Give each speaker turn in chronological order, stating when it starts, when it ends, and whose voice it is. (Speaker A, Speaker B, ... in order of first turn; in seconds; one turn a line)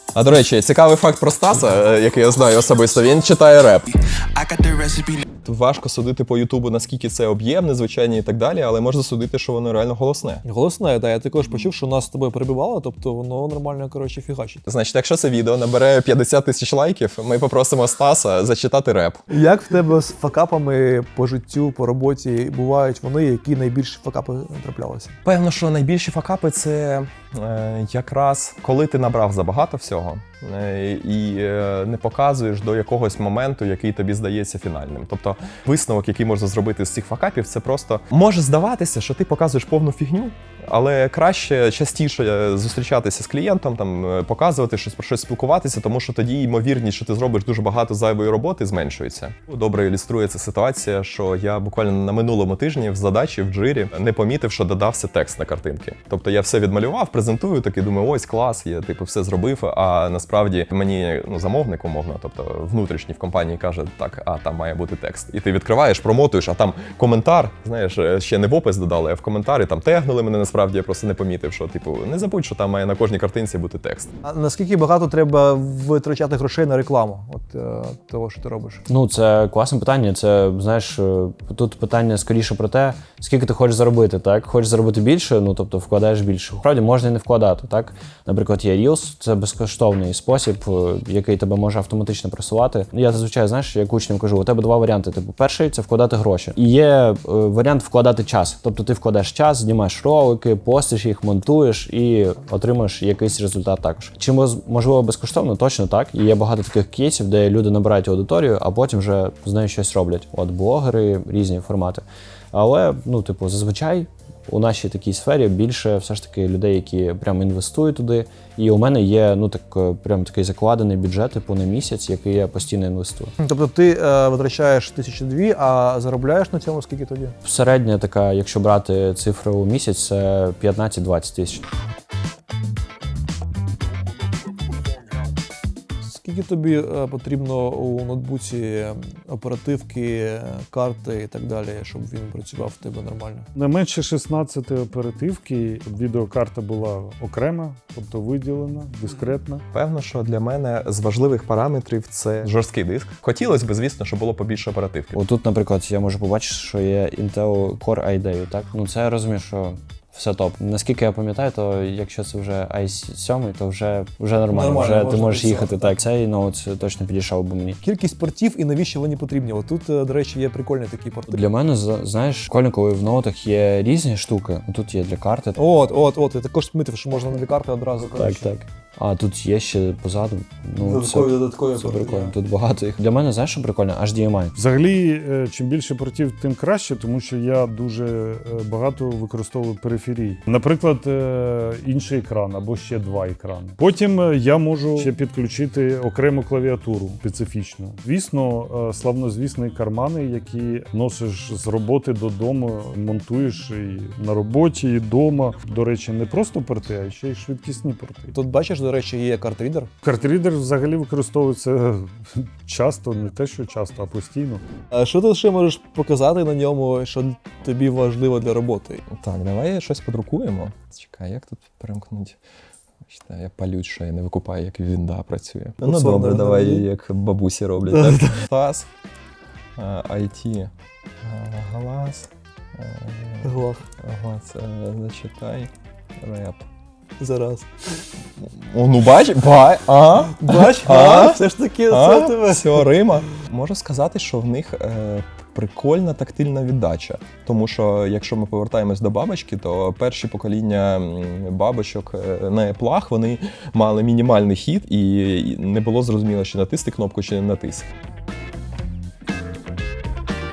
Speaker A: 0.1-10.4
Speaker B: 10.4-14.6
Speaker A: 14.7-19.2
Speaker B: 19.3-25.1
Speaker A: 25.2-74.1
Speaker B: 74.2-78.8
Speaker C: 78.9-123.3
Speaker B: 123.4-127.3
Speaker C: 127.4-131.7
Speaker B: 136.0-143.5
Speaker D: 143.5-149.6
Speaker A: 149.7-155.1
Speaker C: 155.1-167.8
Speaker B: 164.5-165.9
Speaker B: 167.8-171.4
Speaker C: 171.3-175.6
Speaker B: 175.6-178.5
Speaker C: 178.2-184.6
Speaker B: 180.8-182.3
Speaker D: 184.5-208.3
Speaker B: 208.3-209.9
Speaker D: 210.0-214.6
Speaker B: 214.9-219.0
Speaker A: 219.2-222.4
Speaker A: 223.1-228.9
Speaker B: 225.8-226.9
Speaker B: 227.9-228.4
Speaker A: 229.8-230.7
Speaker A: 231.2-236.6
Speaker B: 233.4-233.8
Speaker B: 237.2-237.7
Speaker A: 238.4-257.9
Speaker B: 240.4-242.9